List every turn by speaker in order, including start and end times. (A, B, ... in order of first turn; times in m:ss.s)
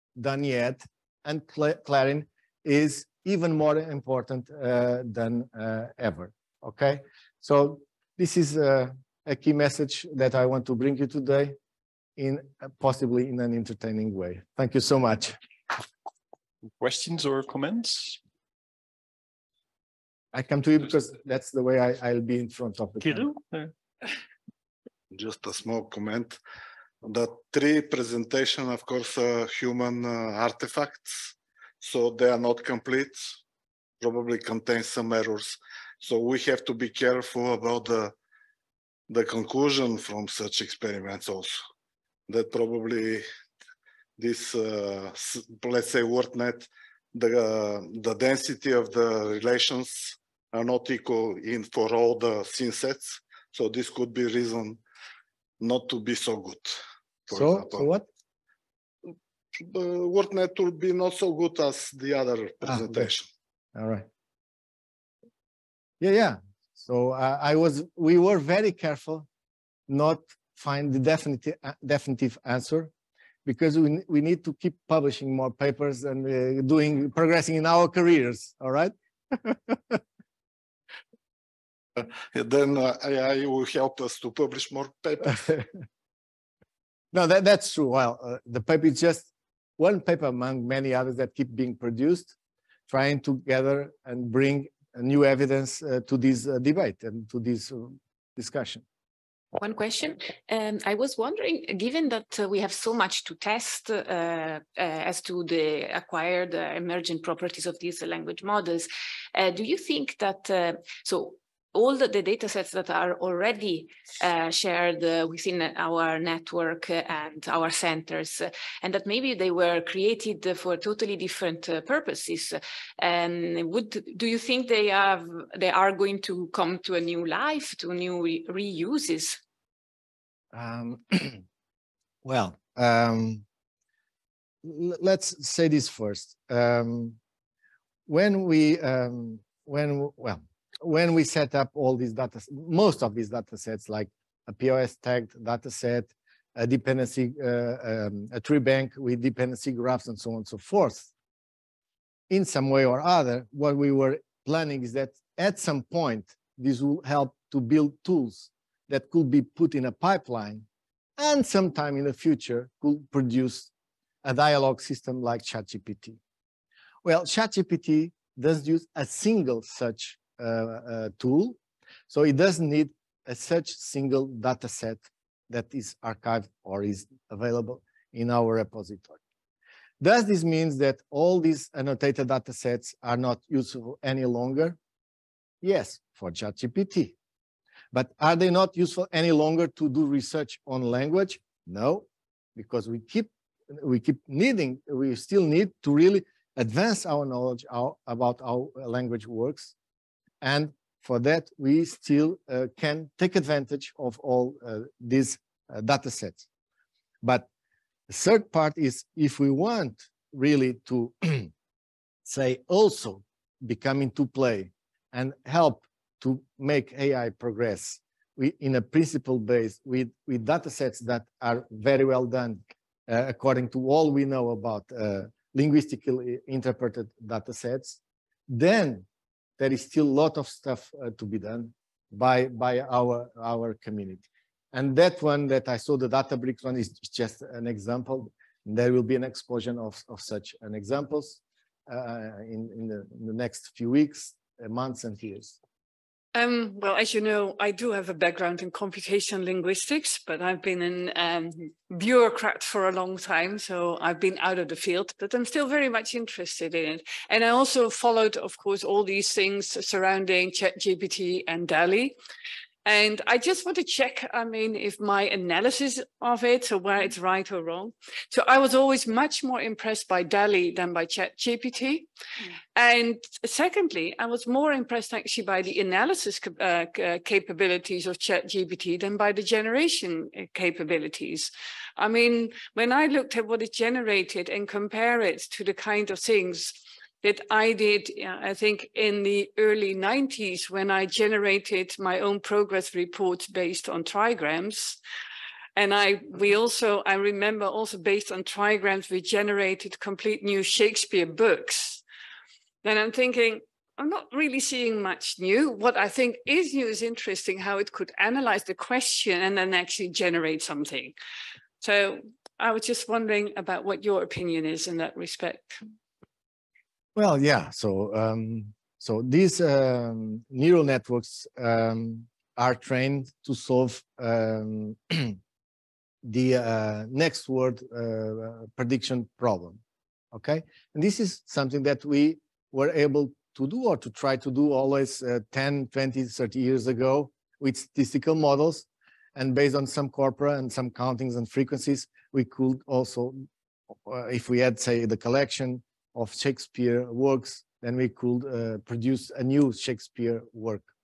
0:00.2-0:11.5 A
0:12.2-0:15.4 A
0:16.8-0:18.2 B
0:20.3-0:23.3 A
0:23.0-0:23.7 B
0:25.1-0:26.4 C
0:27.0-0:33.4 C
0:34.0-0:38.1 C
0:39.1-0:41.6 C
0:42.3-0:43.2 C
0:44.2-0:54.8 C
0:55.6-0:57.8 C
0:57.3-0:58.0 A
0:59.6-1:03.3 C
1:03.8-1:04.1 A
1:06.0-1:09.3 A
1:09.9-1:12.9 A
1:13.4-1:20.0 A
1:22.3-1:25.6 C
1:27.1-1:32.3 A
1:32.9-1:38.8 A
1:39.5-2:09.4 D
2:10.5-2:11.4 A
2:12.2-2:13.4 A
2:14.6-2:17.2 A
2:18.1-2:31.1 A
2:32.3-2:40.6 A
2:41.2-2:43.7 A
2:44.2-2:46.2 A
2:47.0-2:51.6 A
2:52.1-2:59.2 A
3:00.0-3:04.8 A
3:05.6-3:07.1 A
3:07.9-3:19.7 A
3:20.4-3:26.4 A
3:28.1-3:31.5 A
3:32.2-3:49.0 A
3:49.6-4:05.6 A
4:06.3-4:22.1 E
4:22.8-4:32.1 E
4:32.7-4:55.0 E
4:55.8-5:02.0 E
5:02.8-5:11.1 E
5:11.8-5:15.8 E
5:17.1-5:25.4 A
5:26.2-5:29.8 A
5:30.3-5:43.4 A
5:44.0-5:50.9 A